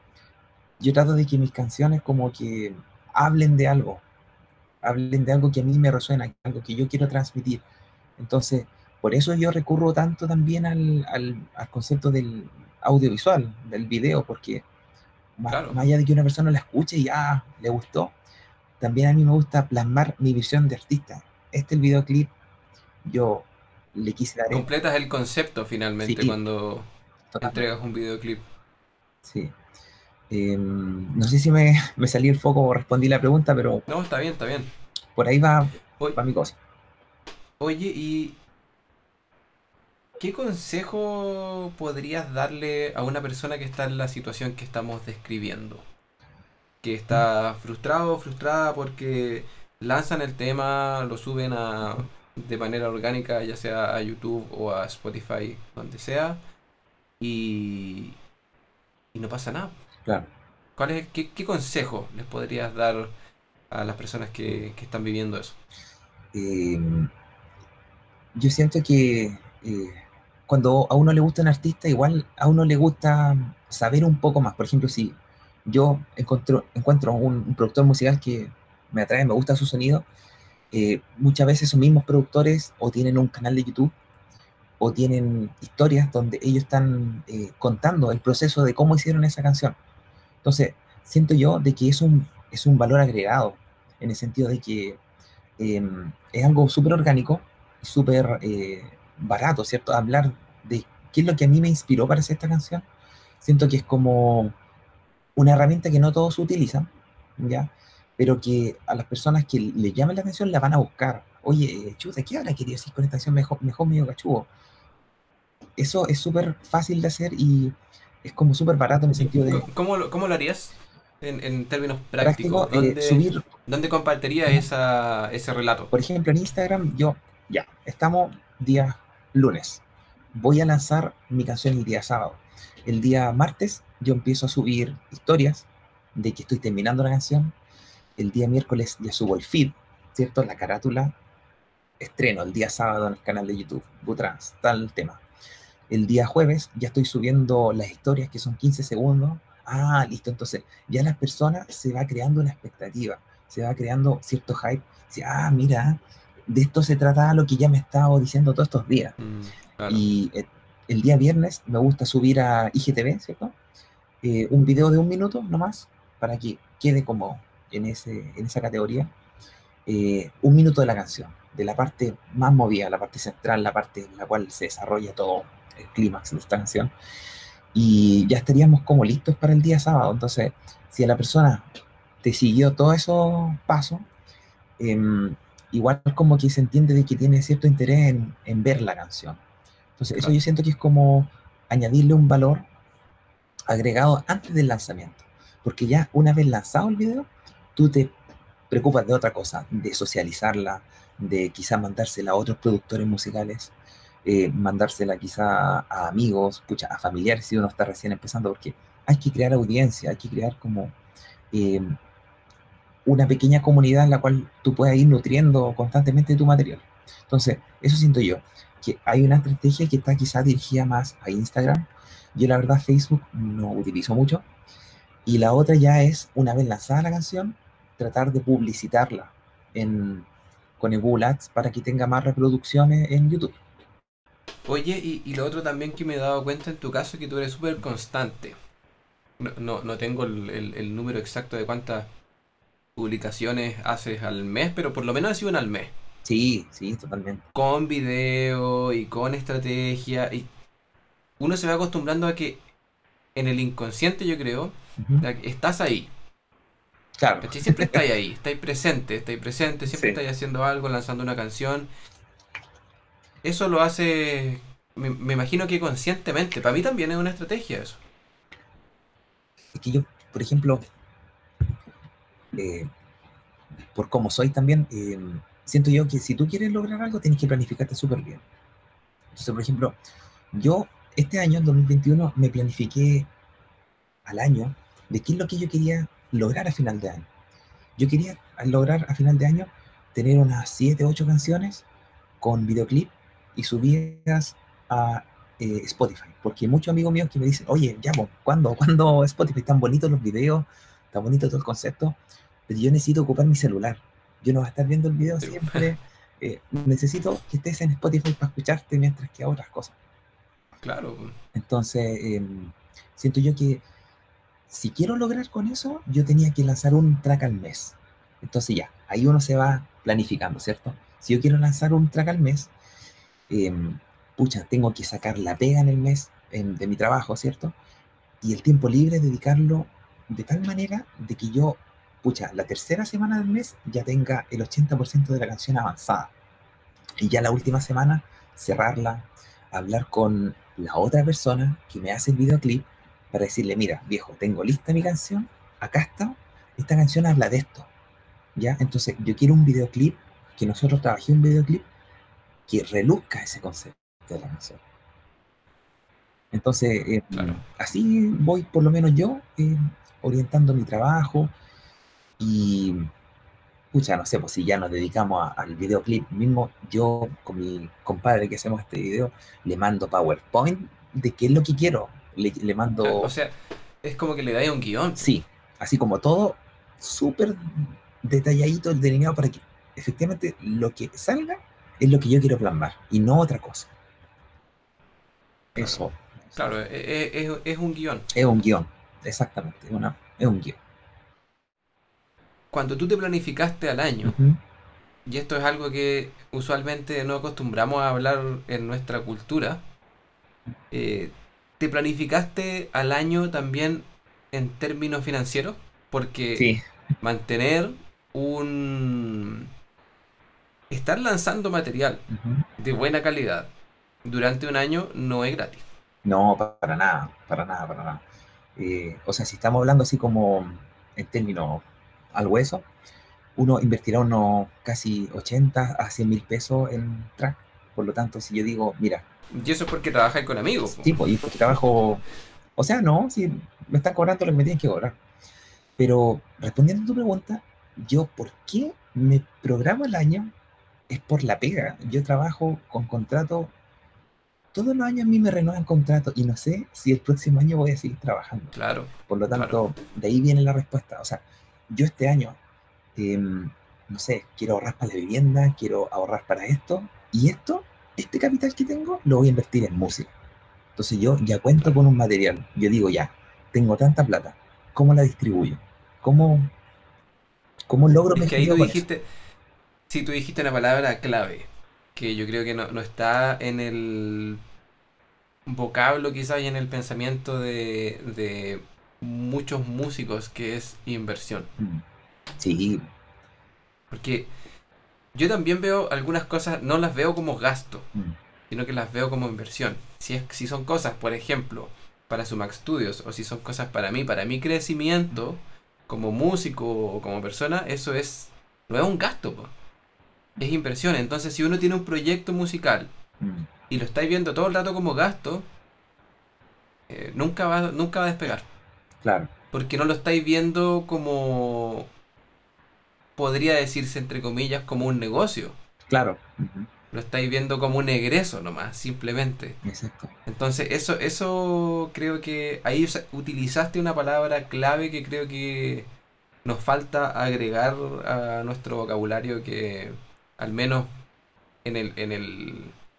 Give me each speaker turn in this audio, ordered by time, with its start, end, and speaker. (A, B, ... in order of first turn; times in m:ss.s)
0:00.8-0:04.0 A
0:04.8-0:07.6 A
0:08.2-0:14.6 A
0:15.4-0:18.2 A
0:15.5-0:15.8 B
0:18.8-0:22.3 A
0:23.0-0:24.7 A
0:24.5-0:26.9 B
0:26.0-0:26.4 A
0:27.3-0:27.6 A
0:27.4-0:28.4 B
0:29.2-0:29.5 A
0:30.3-0:33.9 A
0:33.9-0:34.7 B
0:35.2-0:36.6 A
0:37.6-0:38.4 B
0:40.2-0:45.9 B
0:46.8-0:56.4 B
0:57.2-0:58.2 B
0:59.1-0:59.8 B
1:00.8-1:03.1 B
1:03.7-1:05.6 B
1:06.3-1:07.1 A
1:08.4-1:20.1 A
1:20.7-1:23.9 A
1:24.8-1:29.8 A
1:30.4-1:35.0 A
1:35.6-1:42.9 A
1:43.4-1:44.6 A
1:45.4-1:54.5 A
1:55.8-1:59.7 A
1:59.2-2:05.9 B
2:02.2-2:03.5 A
2:05.9-2:09.8 A
2:10.3-2:17.5 A
2:18.2-2:21.2 A
2:22.0-2:25.2 A
2:25.9-2:39.2 A
2:39.2-2:40.1 B
2:39.9-2:43.6 A
2:44.2-2:49.1 A
2:49.9-2:56.9 A
2:57.7-3:01.7 A
3:02.2-3:04.1 A
3:04.8-3:09.4 A
3:10.0-3:12.7 A
3:13.7-3:18.2 A
3:18.7-3:23.7 A
3:24.2-3:31.0 A
3:31.5-3:32.0 A
3:33.1-3:44.4 A
3:45.3-3:50.3 A
3:50.8-3:53.6 A
3:54.7-3:58.6 B
3:59.4-4:02.1 B
4:03.0-4:05.9 B
4:06.2-4:07.4 A
4:07.5-4:10.5 B
4:11.4-4:12.6 B
4:13.4-4:16.1 B
4:15.0-4:15.2 A
4:17.2-4:18.0 A
4:17.4-4:21.9 B
4:19.9-4:20.2 A
4:23.4-4:28.0 B
4:29.7-4:30.8 A
4:32.5-4:32.9 A
4:33.9-4:38.4 A
4:39.3-4:40.0 A
4:40.5-4:43.3 A
4:44.2-4:47.3 A
4:48.0-4:51.9 A
4:52.4-5:10.0 A
5:05.4-5:05.9 B
5:10.8-5:11.4 B
5:11.5-5:13.8 A
5:14.7-5:22.7 A
5:23.5-5:27.8 A
5:28.4-5:36.3 A
5:37.2-5:47.9 A
5:48.6-5:51.9 A
5:52.7-5:54.8 A
5:56.5-6:01.5 A
5:57.3-5:57.6 B
6:02.4-6:03.1 A
6:03.9-6:13.3 A
6:13.0-6:15.3 B
6:15.2-6:23.9 A
6:25.8-6:26.2 A
6:25.8-6:28.3 B
6:28.3-6:30.8 A
6:32.7-6:34.4 B
6:34.2-6:34.6 A
6:35.3-6:39.8 B
6:40.9-6:46.7 B
6:47.2-6:49.7 B
6:50.9-6:52.2 B
6:52.3-6:52.7 A
6:52.8-6:53.7 B
6:54.2-6:55.9 B
6:56.2-6:58.2 A
6:58.8-7:02.9 A
7:03.6-7:09.2 A
7:09.5-7:11.2 B
7:11.0-7:12.2 A
7:12.8-7:15.2 A
7:16.0-7:20.5 A
7:21.1-7:23.7 A
7:24.7-7:28.8 A
7:28.8-7:29.8 B
7:29.3-7:32.6 A
7:33.2-7:40.3 A
7:41.0-7:46.7 A
7:47.9-7:49.0 A
7:48.3-7:49.2 B
7:50.1-7:54.6 B
7:55.7-8:01.7 B
8:01.8-8:02.0 A
8:02.6-8:03.0 A
8:04.1-8:04.5 B
8:05.4-8:08.1 B
8:08.7-8:19.7 B
8:20.6-8:23.1 B
8:23.4-8:23.7 A
8:23.9-8:25.7 B
8:27.1-8:28.7 B
8:29.2-8:29.5 A
8:29.7-8:32.1 B
8:33.4-8:35.8 B
8:36.1-8:36.9 A
8:37.1-8:39.8 B
8:39.8-8:40.3 A
8:40.5-8:46.1 B
8:46.6-8:51.1 B
8:51.8-8:53.0 B